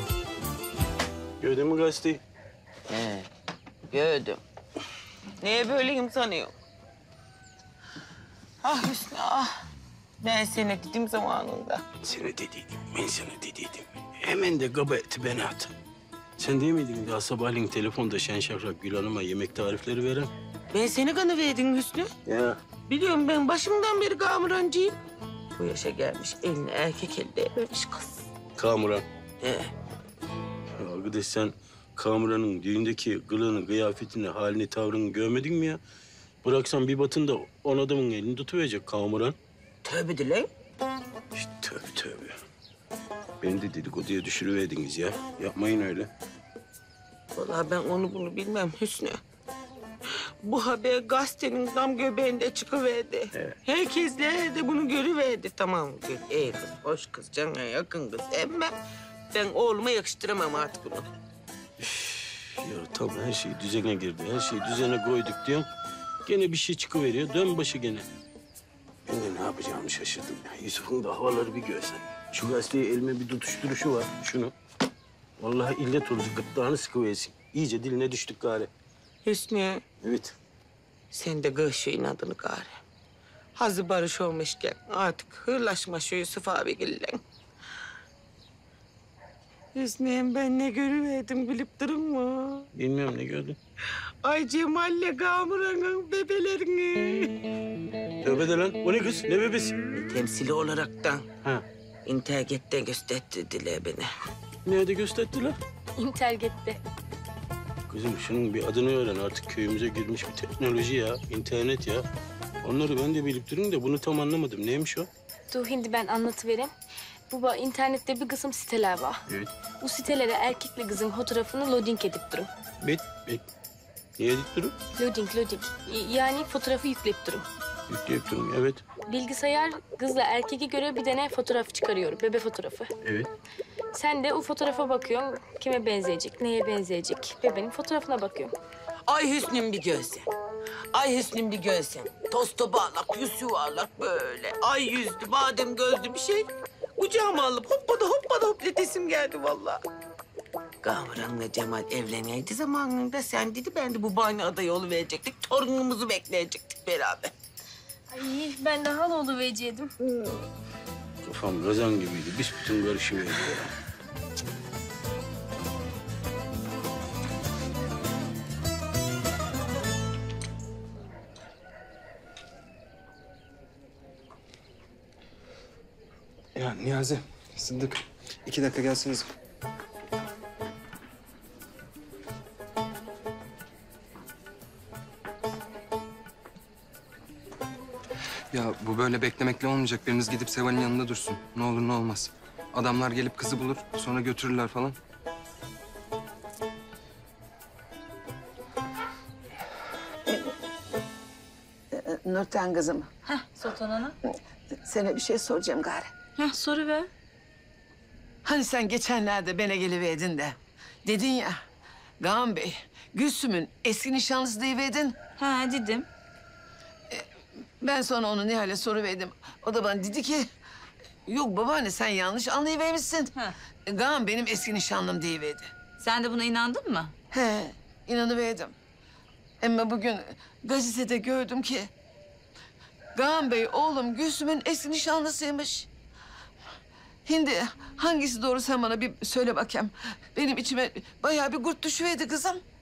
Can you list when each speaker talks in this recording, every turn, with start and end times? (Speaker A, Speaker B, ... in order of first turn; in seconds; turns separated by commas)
Speaker A: 1.4-2.2, Speaker B: 2.9-3.3, Speaker B: 3.9-4.4, Speaker B: 5.4-6.5, Speaker B: 8.6-9.5, Speaker B: 10.2-11.8, Speaker A: 12.0-15.7, Speaker A: 16.4-20.3, Speaker B: 20.7-22.1, Speaker A: 22.3-22.6, Speaker B: 22.9-25.0, Speaker B: 25.5-28.1, Speaker A: 28.6-29.0, Speaker B: 29.4-29.7, Speaker A: 30.8-35.8, Speaker A: 36.4-39.4, Speaker B: 39.8-40.5, Speaker A: 41.4-42.4, Speaker A: 43.4-46.1, Speaker B: 47.4-49.2, Speaker B: 50.4-58.7, Speaker B: 59.3-61.1, Speaker A: 61.8-65.7, Speaker A: 66.3-68.0, Speaker A: 69.1-74.5, Speaker A: 75.4-78.7, Speaker B: 79.2-79.8, Speaker A: 80.0-80.3, Speaker B: 81.1-82.8, Speaker B: 83.6-87.2, Speaker B: 89.7-92.7, Speaker A: 92.7-93.6, Speaker B: 94.2-97.3, Speaker A: 98.2-99.7, Speaker B: 100.0-101.3, Speaker B: 102.1-104.1, Speaker A: 104.7-105.6, Speaker C: 106.0-106.8, Speaker A: 107.9-112.1, Speaker A: 112.6-115.1, Speaker C: 115.5-116.7, Speaker C: 117.3-119.2, Speaker C: 119.8-122.5, Speaker A: 122.8-123.4, Speaker A: 124.2-124.7, Speaker C: 125.0-127.5, Speaker A: 127.9-128.8, Speaker C: 129.1-132.9, Speaker A: 133.0-133.3, Speaker C: 133.9-138.5, Speaker B: 139.1-140.3, Speaker B: 140.9-149.8, Speaker B: 150.8-157.3, Speaker C: 158.1-159.9, Speaker A: 161.3-163.7, Speaker D: 176.6-179.3, Speaker D: 188.5-194.9, Speaker E: 201.9-203.1, Speaker F: 203.6-204.1, Speaker E: 204.8-206.1, Speaker F: 206.4-207.1, Speaker E: 208.4-211.6, Speaker E: 212.2-215.2, Speaker F: 215.4-216.1, Speaker E: 217.8-220.5, Speaker E: 221.3-223.3, Speaker E: 223.9-225.7, Speaker F: 226.0-227.1, Speaker E: 227.3-228.7, Speaker E: 229.6-231.9, Speaker E: 233.2-235.9, Speaker E: 237.3-242.6